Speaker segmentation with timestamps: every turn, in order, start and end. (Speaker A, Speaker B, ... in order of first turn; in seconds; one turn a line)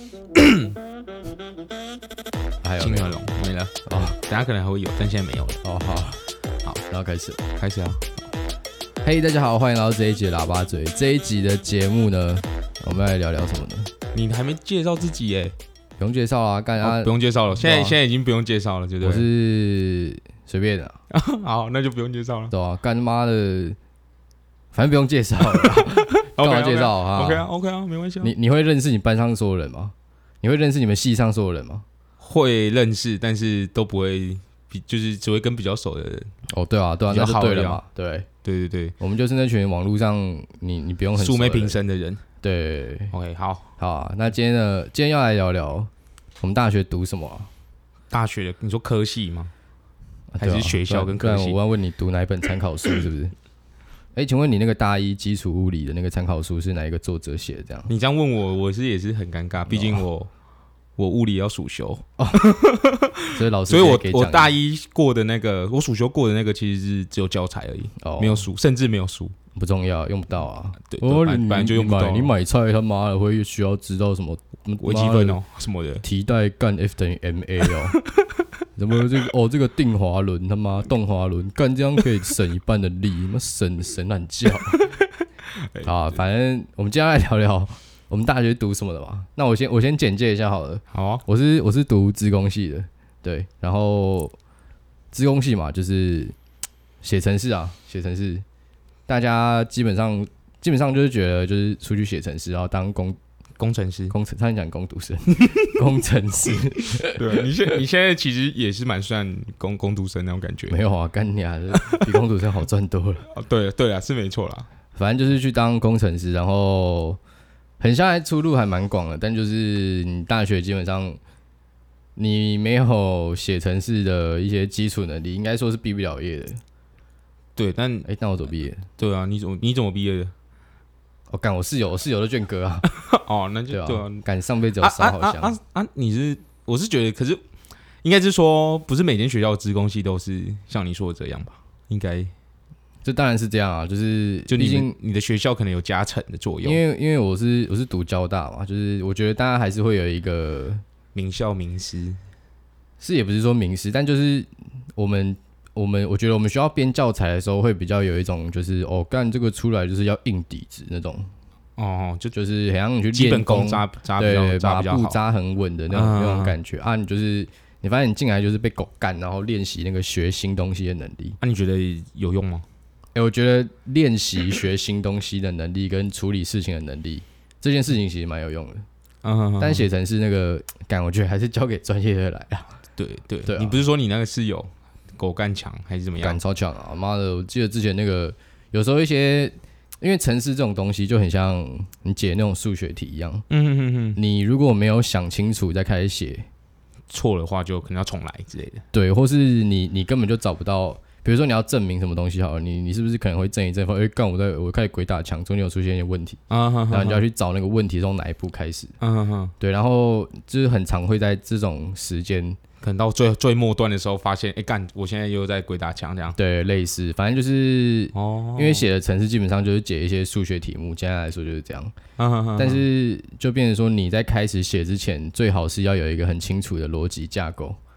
Speaker A: 0.3-0.8
Speaker B: 2.6-3.2
Speaker A: 2.8-5.6
Speaker B: 3.9-4.2
Speaker B: 5.6-6.2
Speaker B: 6.9-7.4
Speaker A: 7.6-8.1
Speaker B: 9.0-13.9
Speaker A: 14.1-15.6
Speaker B: 16.0-17.9
Speaker A: 16.8-19.3
Speaker B: 19.0-21.0
Speaker A: 21.1-22.5
Speaker B: 22.5-23.8
Speaker B: 24.7-27.5
Speaker A: 25.4-28.3
Speaker B: 28.2-31.8
Speaker A: 32.2-36.3
Speaker B: 36.5-38.3
Speaker A: 37.1-37.8
Speaker A: 38.4-39.0
Speaker B: 39.0-41.8
Speaker A: 41.2-42.2
Speaker B: 42.4-43.1
Speaker A: 43.1-43.7
Speaker B: 43.8-45.9
Speaker B: 46.4-47.5
Speaker A: 48.1-49.5
Speaker B: 50.3-53.3
Speaker A: 50.4-51.6
Speaker B: 54.2-57.9
Speaker A: 57.9-60.3
Speaker B: 59.7-60.0
Speaker A: 61.0-69.3
Speaker B: 62.2-62.5
Speaker B: 63.3-64.5
Speaker B: 68.0-68.5
Speaker B: 69.5-75.4
Speaker A: 70.9-72.3
Speaker A: 74.8-76.0
Speaker B: 76.0-78.0
Speaker A: 78.0-78.3
Speaker B: 78.8-84.8
Speaker A: 84.6-86.2
Speaker B: 85.8-94.3
Speaker A: 90.9-91.2
Speaker B: 95.1-96.3
Speaker B: 97.0-98.4
Speaker B: 99.1-103.2
Speaker A: 103.6-104.2
Speaker B: 104.1-107.7
Speaker A: 107.0-110.8
Speaker B: 110.7-113.3
Speaker A: 111.7-112.1
Speaker A: 113.3-114.7
Speaker B: 115.0-117.2
Speaker B: 117.8-121.2
Speaker B: 122.2-126.6
Speaker A: 127.6-128.1
Speaker B: 128.1-128.8
Speaker A: 129.0-130.3
Speaker B: 131.3-132.9
Speaker A: 132.9-134.2
Speaker B: 133.7-135.5
Speaker A: 134.8-137.4
Speaker A: 138.0-142.3
Speaker B: 143.1-145.0
Speaker A: 144.5-146.8
Speaker B: 146.6-150.8
Speaker A: 151.2-152.2
Speaker B: 153.0-161.3
Speaker A: 161.8-162.3
Speaker B: 162.3-171.4
Speaker A: 163.1-165.2
Speaker A: 165.9-166.6
Speaker A: 171.4-172.7
Speaker B: 173.2-178.9
Speaker A: 179.2-179.9
Speaker B: 179.6-182.8
Speaker A: 183.0-186.4
Speaker B: 183.4-183.8
Speaker B: 186.2-193.5
Speaker A: 193.5-194.2
Speaker B: 194.2-196.5
Speaker A: 197.1-198.8
Speaker B: 198.9-208.9
Speaker A: 206.5-207.2
Speaker A: 209.0-209.5
Speaker B: 209.6-212.6
Speaker A: 212.8-216.4
Speaker B: 216.3-221.9
Speaker A: 218.1-218.8
Speaker A: 222.2-222.8
Speaker B: 222.6-227.8